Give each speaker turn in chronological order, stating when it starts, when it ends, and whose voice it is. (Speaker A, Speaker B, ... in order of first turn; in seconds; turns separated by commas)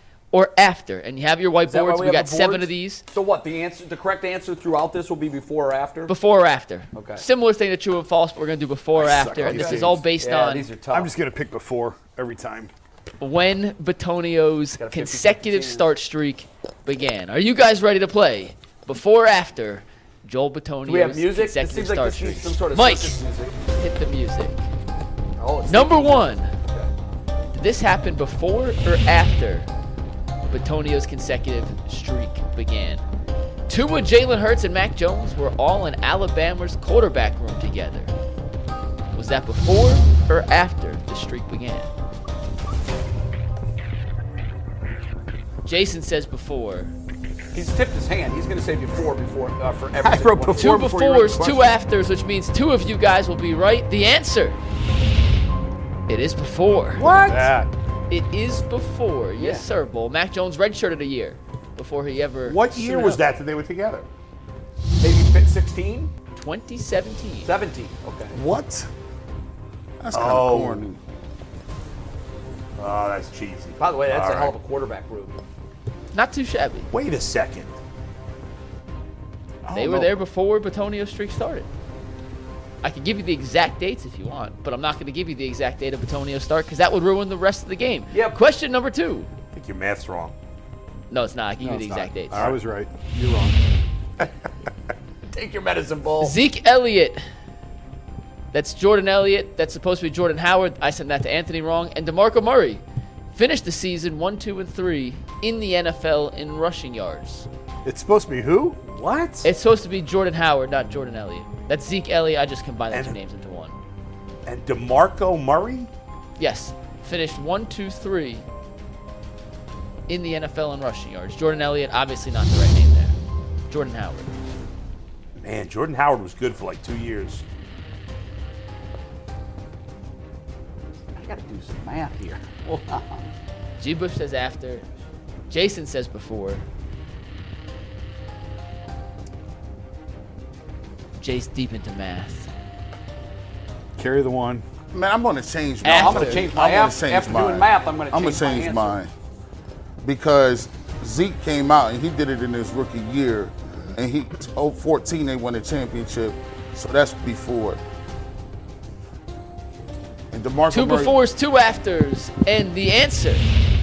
Speaker A: 0.3-3.0, Speaker B: 1.6-6.1, Speaker A: 6.1-10.7, Speaker B: 6.9-7.2, Speaker C: 8.9-10.0, Speaker B: 9.3-11.1, Speaker C: 10.9-12.7, Speaker A: 13.2-24.7, Speaker B: 14.8-15.9, Speaker B: 20.9-23.5, Speaker B: 25.4-26.9, Speaker A: 25.7-26.5, Speaker A: 27.5-29.7, Speaker A: 30.5-33.0, Speaker A: 33.7-38.1, Speaker A: 39.1-41.9, Speaker A: 45.6-46.9, Speaker B: 47.5-51.6, Speaker C: 50.0-51.7, Speaker A: 50.6-54.6, Speaker A: 56.1-57.0, Speaker C: 57.0-57.7, Speaker D: 57.0-57.5, Speaker A: 58.1-63.2, Speaker B: 59.4-59.7, Speaker D: 62.5-64.1, Speaker B: 65.0-66.1, Speaker A: 66.3-67.5, Speaker B: 67.4-68.4, Speaker E: 68.3-68.9, Speaker E: 70.0-71.0, Speaker D: 70.1-70.8, Speaker D: 72.8-74.5, Speaker B: 73.8-75.4, Speaker A: 76.1-76.9, Speaker D: 76.9-77.8, Speaker E: 79.7-80.1, Speaker A: 79.7-81.7, Speaker A: 82.8-89.3, Speaker B: 88.1-88.4, Speaker D: 89.5-90.3, Speaker A: 91.1-92.5, Speaker C: 91.6-93.6, Speaker D: 92.3-92.6, Speaker B: 95.3-96.4, Speaker A: 96.2-97.2, Speaker A: 98.5-102.8, Speaker A: 103.3-107.5, Speaker C: 107.8-108.8, Speaker D: 108.9-109.5, Speaker A: 109.4-113.8, Speaker D: 112.9-113.2, Speaker D: 114.5-115.9, Speaker A: 116.4-118.5, Speaker A: 120.1-123.2, Speaker A: 123.7-124.4, Speaker D: 125.4-127.4, Speaker B: 131.2-133.3, Speaker A: 133.8-134.8, Speaker A: 135.5-136.6, Speaker A: 141.2-142.5, Speaker C: 144.0-144.6, Speaker E: 144.9-149.1, Speaker A: 145.8-146.6, Speaker B: 145.9-149.0, Speaker E: 150.0-157.8, Speaker E: 160.3-161.2, Speaker A: 160.7-163.5